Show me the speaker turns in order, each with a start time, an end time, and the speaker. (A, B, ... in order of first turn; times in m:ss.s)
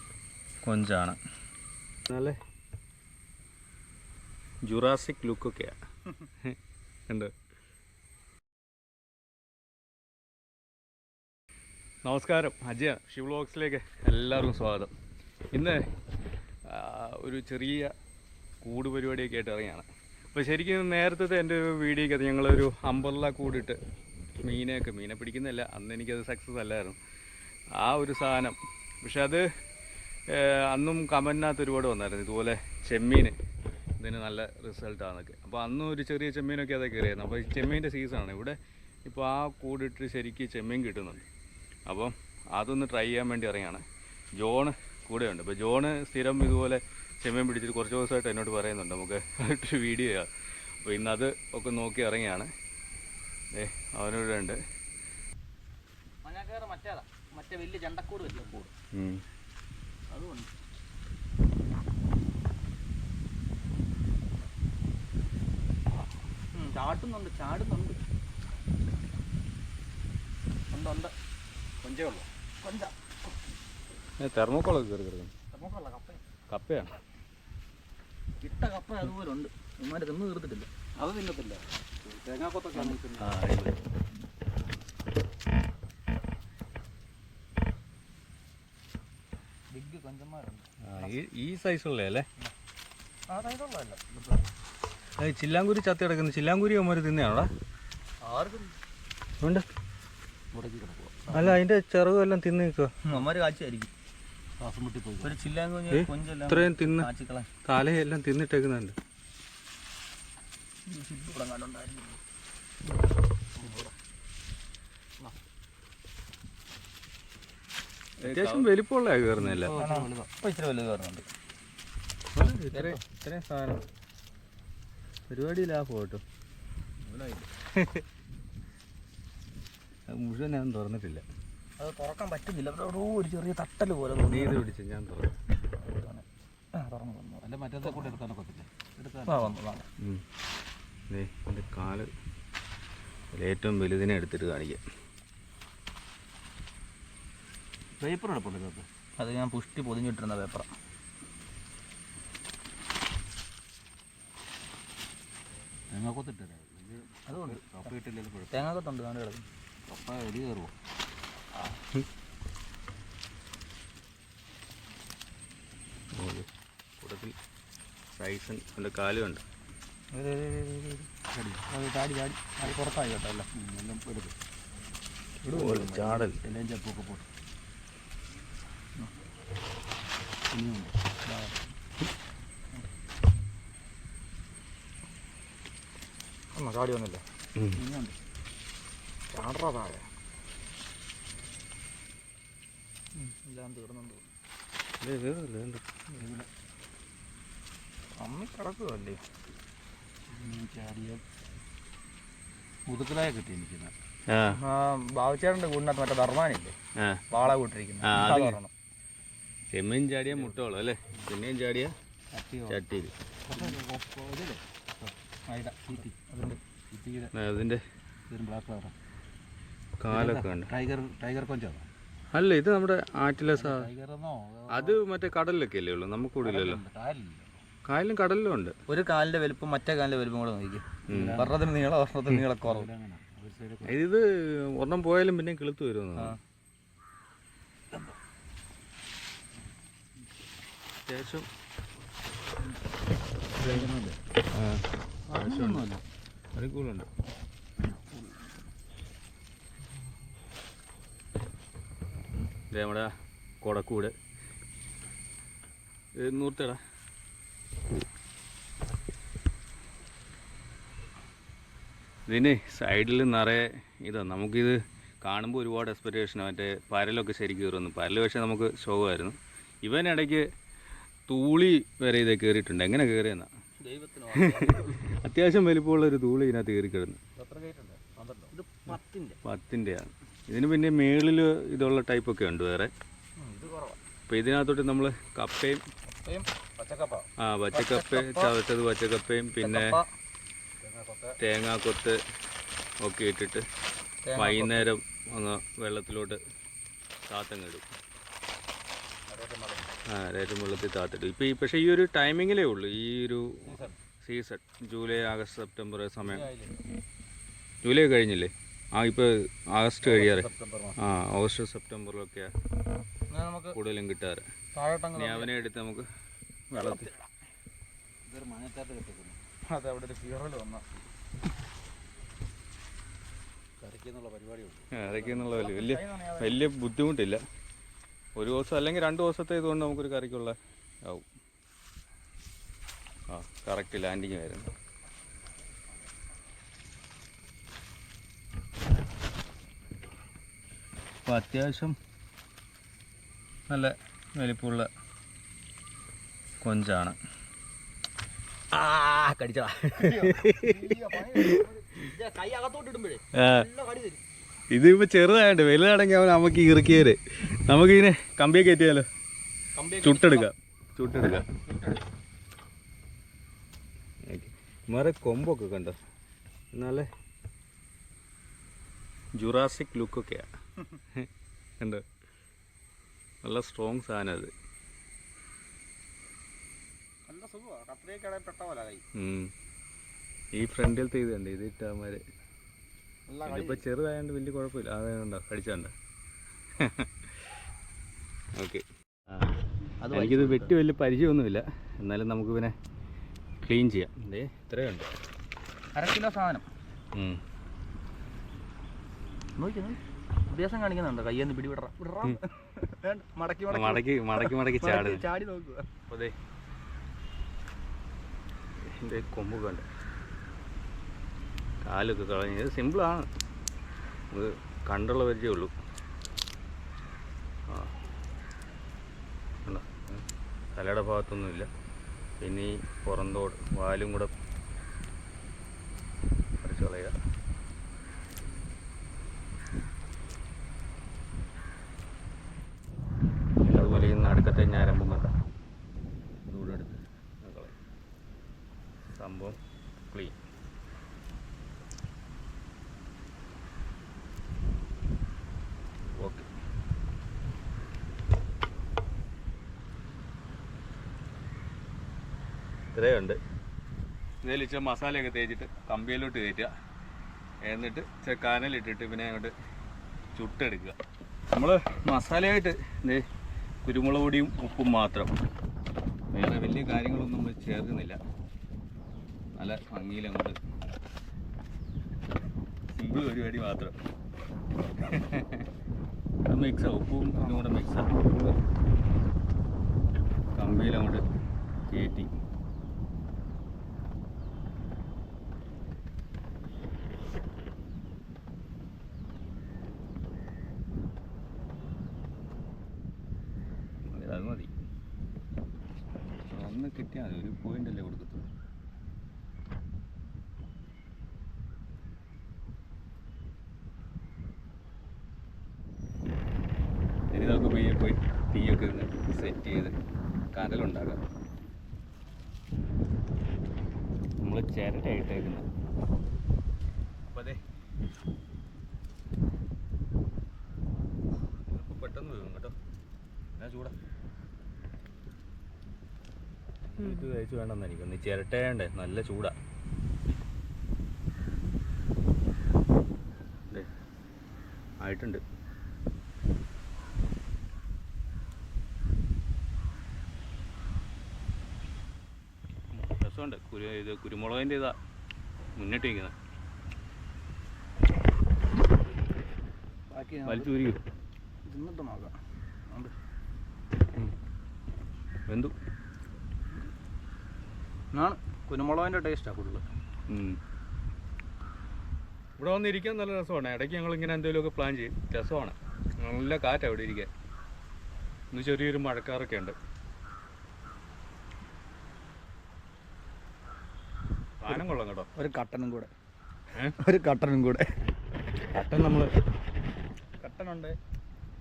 0:00.6-0:01.2 A
0:02.1-0:02.4 A
0:04.6-0:05.7 A
0:12.0-0:14.9 A
0:15.5-0:15.8 A
0:16.6-0:17.9 A
0:18.6-0:23.8 A
0:24.4-0:27.0 A
0:27.7-0:29.4 A
0:30.3-0:33.4 A
0:34.0-0:41.3 A
0:41.9-0:43.8 A
0:44.4-0:50.3 A
0:50.8-0:52.5 A
0:53.5-0:54.6 A
0:56.2-0:58.7 B
0:58.9-0:59.2 A
1:00.1-1:00.5 B
1:06.5-1:08.0 B
1:10.7-1:11.1 B
1:11.8-1:12.2 C
1:12.6-1:12.9 B
1:14.2-1:15.3 A
1:15.5-1:16.2 B
1:16.5-1:17.0 A
1:18.4-1:20.7 B
1:21.0-1:23.4 C
1:23.2-1:23.8 A
1:29.7-1:31.1 B
1:30.8-1:32.3 A
1:33.3-1:34.0 B
1:34.1-1:34.4 C
1:35.2-1:37.5 A
1:38.2-1:38.7 B
1:39.4-1:39.6 A
1:40.5-1:41.6 C
1:41.3-1:42.9 A
1:43.0-1:43.9 B
1:44.6-1:45.3 C
1:45.2-1:47.5 B
1:45.9-1:47.1 A
1:47.6-1:49.0 A
1:50.9-1:52.2 B
1:53.6-1:53.9 B
1:58.2-1:59.7 A
1:58.2-1:58.7 B
1:59.4-2:00.3 C
1:59.7-2:01.3 B
2:02.3-2:03.8 A
2:02.6-2:03.0 B
2:05.3-2:06.2 A
2:07.0-2:07.5 C
2:07.8-2:08.0 A
2:10.1-2:11.2 A
2:11.8-2:14.6 B
2:14.2-2:15.3 A
2:15.9-2:18.2 B
2:17.4-2:19.6 C
2:19.3-2:19.9 B
2:20.0-2:20.2 A
2:21.1-2:22.1 A
2:23.3-2:24.8 A
2:28.0-2:28.9 C
2:29.2-2:30.7 B
2:35.9-2:38.7 C
2:37.3-2:37.9 B
2:38.5-2:39.4 B
2:39.9-2:40.7 C
2:46.1-2:46.5 A
2:47.0-2:47.3 A
2:48.1-2:49.4 A
2:50.1-2:51.1 B
2:51.3-2:51.6 C
2:51.7-2:53.5 B
2:53.5-2:54.3 C
2:55.4-2:56.3 B
2:55.5-2:56.4 A
2:56.4-2:57.2 C
3:00.5-3:01.1 C
3:01.2-3:01.7 B
3:06.5-3:07.2 B
3:07.7-3:08.2 C
3:09.3-3:10.1 B
3:13.1-3:14.3 B
3:15.0-3:15.8 A
3:16.2-3:16.5 C
3:18.2-3:19.2 B
3:20.3-3:21.2 C
3:22.9-3:23.9 C
3:24.3-3:24.6 A
3:24.5-3:26.8 B
3:27.0-3:27.2 A
3:27.3-3:28.7 B
3:28.0-3:28.6 A
3:29.7-3:31.9 A
3:30.3-3:30.6 C
3:32.3-3:32.8 C
3:32.7-3:33.1 A
3:33.5-3:35.1 C
3:35.5-3:36.6 B
3:35.9-3:36.2 C
3:36.9-3:37.3 C
3:37.3-3:37.8 A
3:38.3-3:38.9 C
3:40.0-3:40.7 A
3:40.1-3:41.9 C
3:42.3-3:43.9 A
3:43.5-3:45.0 C
3:44.7-3:46.8 A
3:46.4-3:47.6 C
3:47.9-3:48.7 A
3:48.9-3:52.9 B
3:51.1-3:51.5 A
3:51.1-3:51.6 C
3:52.6-3:54.0 C
3:53.8-3:56.4 A
4:01.0-4:01.5 A
4:03.6-4:04.2 C
4:04.5-4:05.9 A
4:05.3-4:06.0 C
4:06.5-4:07.1 A
4:07.9-4:08.2 C
4:12.7-4:14.1 A
4:16.2-4:16.8 A
4:22.3-4:30.5 A
4:31.3-4:33.5 A
4:33.8-4:35.0 B
4:34.3-4:37.2 A
4:37.4-4:38.5 C
4:38.5-4:39.4 B
4:39.4-4:42.9 A
4:43.4-4:43.8 B
4:44.3-4:45.8 A
4:46.1-4:46.5 B
4:46.8-4:47.3 C
4:47.4-4:50.0 A
4:47.7-4:48.5 B
4:49.6-4:50.0 B
4:50.8-4:51.4 C
4:51.4-4:52.2 A
4:53.0-4:53.6 A
4:54.2-4:54.9 B
4:54.4-4:56.4 A
4:57.2-4:57.8 A
4:59.3-5:00.0 C
5:00.0-5:06.5 A
5:03.6-5:04.0 C
5:06.2-5:06.8 C
5:07.8-5:12.5 A
5:10.0-5:11.0 C
5:13.3-5:13.8 B
5:13.7-5:14.4 A
5:14.7-5:15.5 B
5:15.2-5:16.1 A
5:16.7-5:17.1 A
5:18.2-5:19.4 C
5:19.7-5:21.0 B
5:23.8-5:25.4 C
5:24.9-5:27.4 A
5:25.4-5:26.6 B
5:28.4-5:31.2 A
5:33.3-5:34.7 A
5:41.2-5:42.0 A
5:43.7-5:44.9 A
5:46.6-5:47.2 A
5:48.7-5:51.6 A
5:49.9-5:54.2 B
5:53.3-5:53.7 A
5:54.7-5:59.1 A
5:59.8-6:00.5 B
6:00.0-6:01.5 A
6:04.3-6:06.0 A
6:06.7-6:07.1 A
6:09.4-6:10.5 A
6:13.4-6:14.5 A
6:17.3-6:19.0 B
6:19.2-6:19.5 A
6:20.5-6:22.2 A
6:23.3-6:23.8 B
6:23.4-6:25.9 A
6:26.8-6:27.5 A
6:28.6-6:29.5 A
6:30.0-6:30.7 B
6:30.1-6:32.7 A
6:33.6-6:35.1 A
6:36.0-6:36.7 B
6:37.1-6:37.4 A
6:39.6-6:40.0 B
6:40.5-6:45.8 B
6:43.7-6:45.2 A
6:46.1-6:46.3 A
6:48.8-6:49.8 A
6:51.8-6:53.3 A
6:54.3-6:55.7 A
6:59.6-7:01.7 A
7:02.4-7:04.3 A
7:06.6-7:07.1 A
7:13.6-7:15.3 A
7:16.5-7:17.7 A
7:19.1-7:19.6 A
7:20.1-7:20.4 A
7:26.2-7:26.5 A
7:32.9-7:33.4 A
7:34.4-7:36.7 A
7:37.6-7:39.5 A
7:40.3-7:41.0 A
7:41.5-7:43.2 A
7:43.8-7:45.3 A
7:46.3-7:48.2 A
7:49.6-7:50.6 A
7:52.9-7:53.9 A
7:55.0-7:55.7 A
7:56.5-7:58.6 A
7:57.3-7:57.6 B
8:00.5-8:01.2 A
8:01.9-8:02.4 A
8:14.1-8:14.7 A
8:16.5-8:18.4 A
8:27.3-8:30.0 A
8:30.5-8:31.2 A
8:34.4-8:35.6 A
8:37.3-8:37.6 A
8:41.6-8:42.7 A
8:43.6-8:43.9 A
8:46.9-8:49.5 A
8:55.0-8:55.4 A
9:02.9-9:05.0 A
9:05.8-9:06.3 A
9:10.1-9:10.7 B
9:10.4-9:11.0 A
9:11.6-9:12.3 B
9:15.5-9:15.7 A
9:18.1-9:19.8 B
9:20.3-9:20.6 A
9:22.6-9:27.3 A
9:28.5-9:29.8 A
9:34.6-9:35.3 A
9:35.3-9:36.1 B
9:37.0-9:37.9 B
9:38.7-9:39.3 A
9:40.4-9:41.0 B